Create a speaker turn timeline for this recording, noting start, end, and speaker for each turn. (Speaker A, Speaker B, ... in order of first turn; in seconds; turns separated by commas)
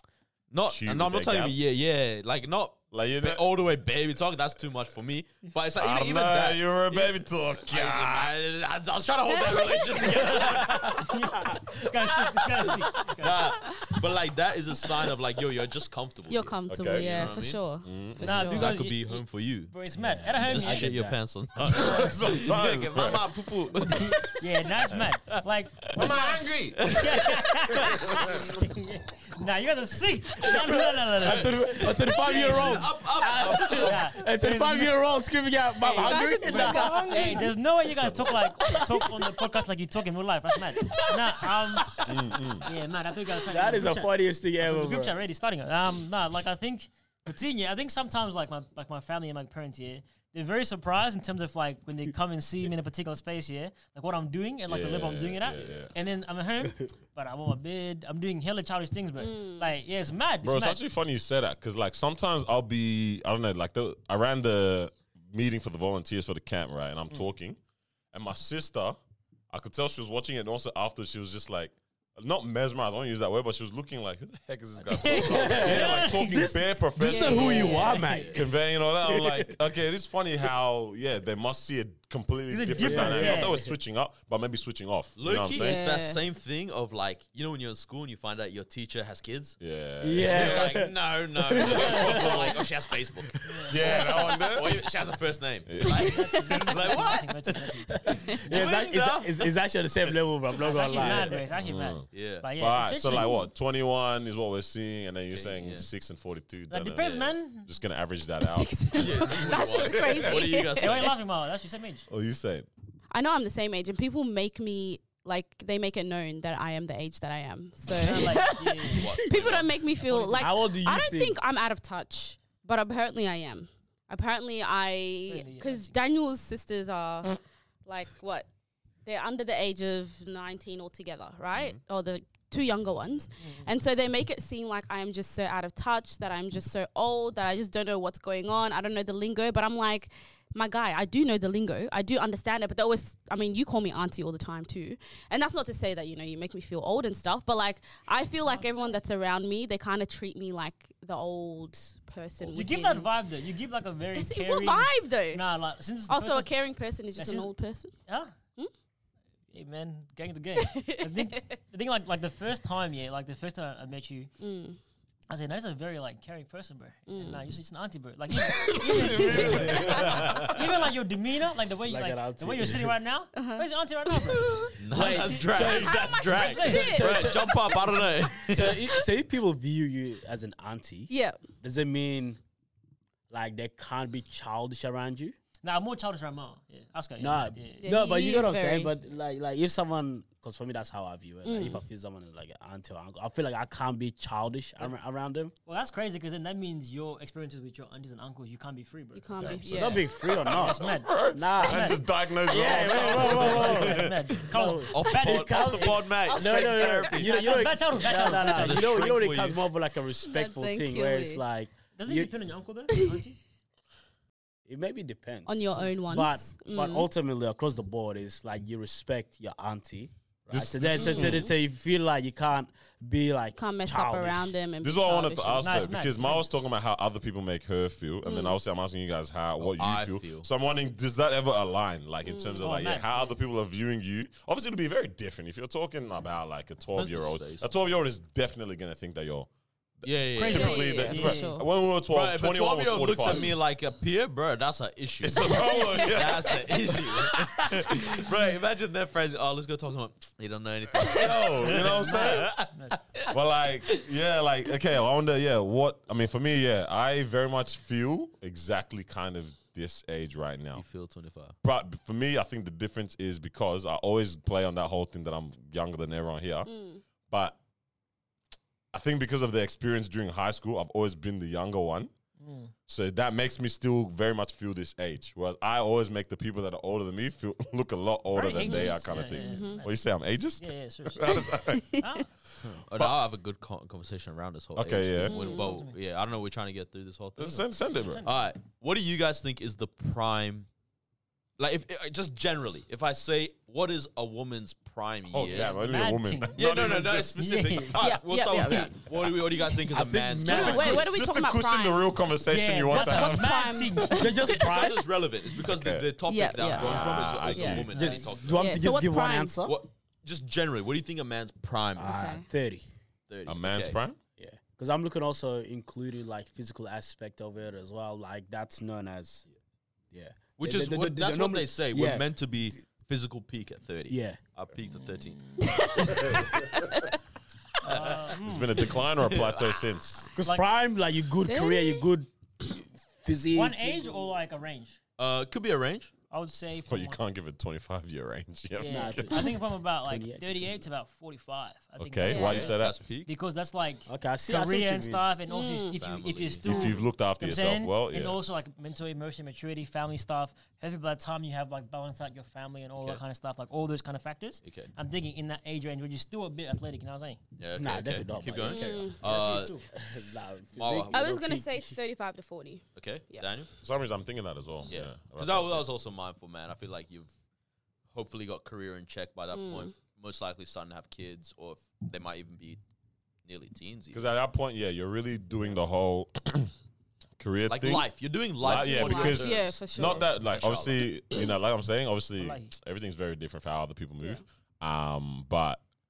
Speaker A: 0.5-17.6, Speaker B: 0.7-1.6, Speaker B: 2.9-3.4, Speaker B: 5.8-8.3, Speaker C: 10.1-13.5, Speaker D: 16.3-18.8, Speaker B: 16.7-18.2, Speaker C: 18.2-19.1, Speaker A: 18.2-19.7, Speaker C: 19.7-20.9, Speaker E: 19.9-21.2, Speaker A: 20.4-24.4, Speaker B: 21.7-23.3, Speaker C: 23.9-31.5, Speaker B: 25.9-26.9, Speaker A: 26.8-27.2, Speaker B: 27.8-28.5, Speaker A: 30.5-34.0, Speaker E: 31.2-37.4, Speaker C: 32.2-32.8, Speaker B: 33.4-33.9, Speaker C: 33.7-35.2, Speaker C: 35.8-42.0, Speaker D: 36.0-37.5, Speaker B: 37.9-38.4, Speaker D: 38.6-39.2, Speaker B: 42.0-42.6, Speaker C: 42.6-60.8, Speaker E: 43.5-45.1, Speaker B: 54.7-55.9, Speaker D: 59.2-59.7, Speaker B: 60.4-67.6, Speaker B: 68.1-69.0, Speaker B: 69.5-85.8, Speaker E: 74.9-78.5, Speaker C: 75.0-76.4, Speaker D: 77.0-78.1, Speaker A: 78.0-78.4, Speaker E: 79.1-79.5, Speaker C: 82.5-83.6, Speaker E: 82.8-83.7, Speaker A: 85.2-89.6, Speaker D: 85.5-86.2, Speaker B: 89.6-90.8, Speaker E: 90.0-92.4, Speaker A: 90.2-99.5, Speaker B: 91.6-92.6, Speaker C: 93.4-94.4, Speaker B: 93.7-94.8, Speaker B: 95.7-96.1, Speaker D: 95.9-96.6, Speaker C: 95.9-98.6, Speaker E: 98.3-101.4, Speaker C: 100.6-103.3, Speaker A: 100.9-101.4, Speaker B: 101.5-110.4, Speaker A: 102.1-102.5, Speaker D: 103.1-103.5, Speaker A: 105.3-105.9, Speaker C: 106.7-107.8, Speaker D: 108.4-111.1, Speaker A: 108.9-111.1, Speaker C: 110.7-112.1, Speaker B: 112.1-112.7, Speaker D: 113.1-128.5, Speaker C: 117.9-119.1, Speaker A: 118.9-119.8, Speaker C: 120.0-120.6, Speaker E: 120.4-121.4, Speaker C: 125.3-125.9, Speaker D: 129.0-153.1, Speaker B: 131.5-131.8, Speaker C: 133.4-133.7, Speaker C: 148.5-149.0, Speaker B: 152.4-152.7, Speaker C: 152.5-156.5, Speaker D: 154.1-155.4, Speaker D: 156.1-157.9, Speaker C: 157.1-157.5, Speaker C: 158.1-158.3, Speaker C: 159.5-164.3, Speaker D: 160.6-161.6, Speaker D: 164.4-164.8, Speaker C: 165.3-177.0, Speaker D: 167.1-167.4, Speaker B: 168.7-170.6, Speaker A: 169.5-170.6, Speaker E: 171.9-172.9, Speaker D: 173.3-174.7, Speaker A: 174.8-178.8, Speaker E: 174.9-182.4, Speaker D: 176.0-177.7, Speaker D: 181.1-181.5, Speaker E: 183.3-185.3, Speaker C: 185.6-187.9, Speaker E: 187.2-195.5, Speaker D: 187.8-188.9, Speaker D: 191.4-191.8, Speaker C: 195.7-200.0, Speaker D: 199.1-200.1, Speaker B: 199.3-204.2, Speaker E: 199.7-200.8, Speaker C: 200.5-202.0, Speaker E: 201.3-212.3, Speaker C: 202.8-205.7, Speaker A: 204.9-207.6, Speaker C: 206.7-208.9, Speaker A: 208.4-209.6, Speaker D: 210.2-211.4, Speaker C: 211.9-213.4, Speaker D: 212.9-213.2, Speaker E: 214.7-224.5, Speaker D: 215.4-217.1, Speaker B: 220.5-221.5, Speaker D: 220.9-221.5, Speaker D: 223.6-225.9, Speaker B: 224.8-243.5, Speaker C: 225.6-226.5, Speaker D: 228.2-228.6, Speaker A: 229.6-230.5, Speaker D: 232.2-232.7, Speaker C: 232.6-233.3, Speaker A: 236.9-237.7, Speaker A: 240.0-241.0, Speaker C: 240.3-241.6, Speaker D: 240.5-241.7, Speaker A: 242.1-253.3, Speaker B: 245.2-247.3, Speaker D: 245.7-246.2, Speaker B: 251.1-252.5, Speaker C: 251.8-253.0, Speaker B: 253.3-260.8, Speaker A: 260.8-261.5, Speaker B: 261.6-266.7, Speaker D: 266.6-267.0, Speaker B: 267.3-267.6, Speaker B: 268.9-272.1, Speaker C: 272.4-272.7, Speaker B: 272.9-283.1, Speaker C: 278.3-279.9, Speaker D: 278.5-279.8, Speaker C: 280.6-282.3, Speaker D: 281.3-282.2, Speaker A: 282.6-287.6, Speaker B: 284.8-285.6, Speaker D: 285.2-285.8, Speaker C: 285.4-285.9, Speaker B: 287.4-288.2, Speaker C: 288.0-288.3, Speaker A: 288.2-290.7, Speaker A: 291.6-295.8, Speaker B: 295.3-297.4, Speaker C: 295.5-296.6, Speaker A: 296.6-301.0, Speaker C: 297.3-298.0, Speaker D: 298.0-298.9, Speaker E: 299.9-301.1, Speaker D: 300.4-302.1, Speaker B: 300.9-303.5, Speaker C: 302.5-304.4, Speaker D: 302.9-304.5, Speaker E: 304.2-305.0, Speaker A: 304.5-308.8, Speaker B: 305.7-306.1, Speaker D: 306.3-307.9, Speaker B: 306.7-307.9, Speaker E: 307.9-309.8, Speaker C: 307.9-308.3, Speaker D: 308.5-309.6, Speaker A: 309.6-312.2, Speaker E: 312.0-312.8, Speaker D: 312.0-312.5, Speaker A: 313.3-314.0, Speaker B: 313.4-314.2, Speaker E: 314.4-319.4, Speaker E: 320.1-322.2, Speaker A: 320.6-325.4, Speaker E: 324.1-324.4, Speaker C: 324.9-325.8, Speaker D: 325.6-327.1, Speaker C: 327.8-328.9, Speaker A: 327.9-328.2, Speaker B: 328.4-330.3, Speaker A: 329.0-329.9, Speaker E: 330.4-334.2, Speaker D: 331.4-332.1, Speaker C: 333.5-335.0, Speaker A: 335.2-336.1, Speaker C: 336.3-337.2, Speaker B: 336.9-339.3, Speaker C: 338.8-357.4, Speaker E: 338.9-340.8, Speaker B: 342.0-343.0, Speaker D: 342.2-342.7, Speaker A: 342.3-343.3, Speaker E: 344.1-345.3, Speaker D: 345.5-346.0, Speaker A: 345.9-346.6, Speaker B: 346.6-348.4, Speaker A: 354.6-354.9, Speaker A: 357.6-360.0, Speaker E: 357.8-362.0, Speaker D: 358.6-359.2, Speaker C: 359.2-359.9, Speaker A: 360.7-361.2, Speaker D: 361.1-363.4, Speaker A: 362.9-363.7, Speaker B: 363.8-365.8, Speaker A: 364.9-367.3, Speaker A: 368.1-372.8, Speaker D: 369.5-369.9, Speaker A: 373.4-374.3, Speaker B: 374.1-376.7, Speaker B: 377.4-378.1, Speaker A: 377.7-381.0, Speaker B: 378.6-385.8, Speaker D: 378.6-380.3, Speaker C: 382.4-382.7